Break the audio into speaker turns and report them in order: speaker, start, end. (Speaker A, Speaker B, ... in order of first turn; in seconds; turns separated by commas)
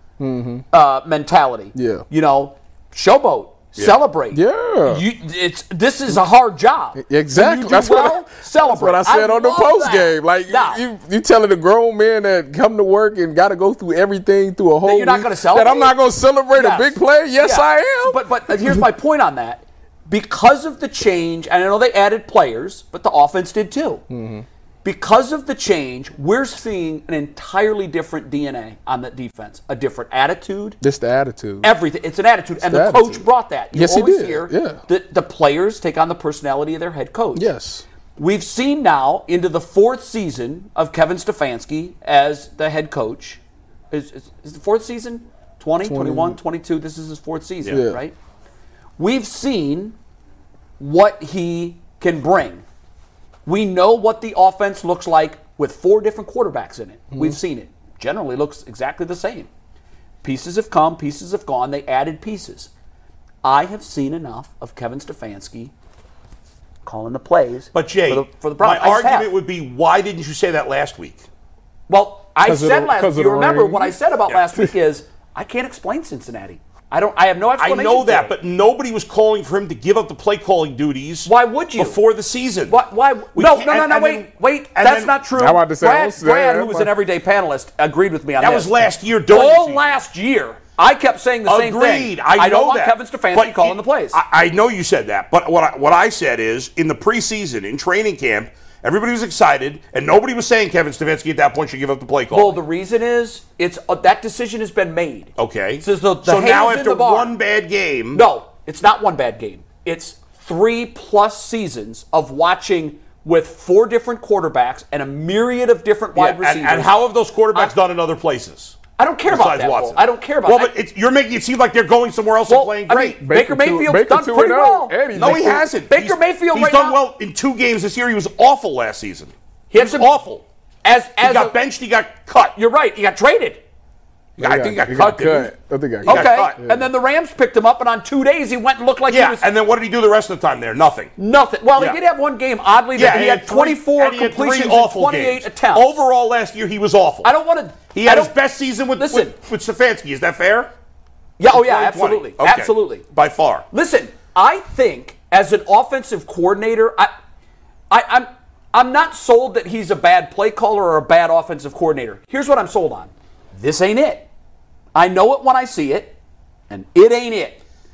Speaker A: 0.2-0.6, Speaker B: 0.7-10.8, Speaker A: 1.8-2.0, Speaker A: 4.3-5.0, Speaker A: 7.0-18.8, Speaker B: 14.8-16.0, Speaker B: 16.5-24.0, Speaker A: 24.1-24.5, Speaker B: 24.8-30.8, Speaker A: 30.8-31.8, Speaker B: 31.6-37.5, Speaker A: 32.6-34.8, Speaker A: 37.4-37.9, Speaker B: 38.2-43.4, Speaker B: 43.9-48.2, Speaker A: 45.8-46.4, Speaker A: 47.7-48.0, Speaker B: 49.0-50.0, Speaker B: 50.8-52.6, Speaker B: 53.5-59.5, Speaker B: 60.2-62.7, Speaker B: 63.4-65.7, Speaker B: 66.8-69.3, Speaker C: 67.7-71.2, Speaker B: 71.9-78.3, Speaker A: 72.4-74.0, Speaker C: 77.6-82.8, Speaker B: 81.2-82.0, Speaker B: 82.7-88.7, Speaker C: 83.3-85.2, Speaker A: 85.3-86.9, Speaker C: 88.4-90.0, Speaker B: 89.3-94.2, Speaker C: 91.5-102.6, Speaker B: 102.3-107.4, Speaker C: 105.4-108.2, Speaker B: 108.1-116.9, Speaker C: 116.1-123.2, Speaker B: 119.0-120.7, Speaker B: 122.5-125.0, Speaker A: 123.2-125.7, Speaker C: 125.1-130.4, Speaker B: 125.9-127.0, Speaker B: 129.7-130.1, Speaker B: 130.8-131.6, Speaker C: 131.2-132.6, Speaker B: 132.6-133.6, Speaker C: 134.4-135.5, Speaker A: 134.4-136.9, Speaker B: 136.1-139.5, Speaker C: 136.1-136.6, Speaker C: 139.1-141.1, Speaker B: 141.2-146.0, Speaker C: 142.9-147.3, Speaker B: 147.2-148.3, Speaker C: 147.9-150.7, Speaker B: 149.0-149.3, Speaker B: 151.4-153.0, Speaker C: 151.5-153.7, Speaker B: 153.7-157.1, Speaker B: 157.9-164.3, Speaker B: 164.9-166.2, Speaker B: 166.7-167.6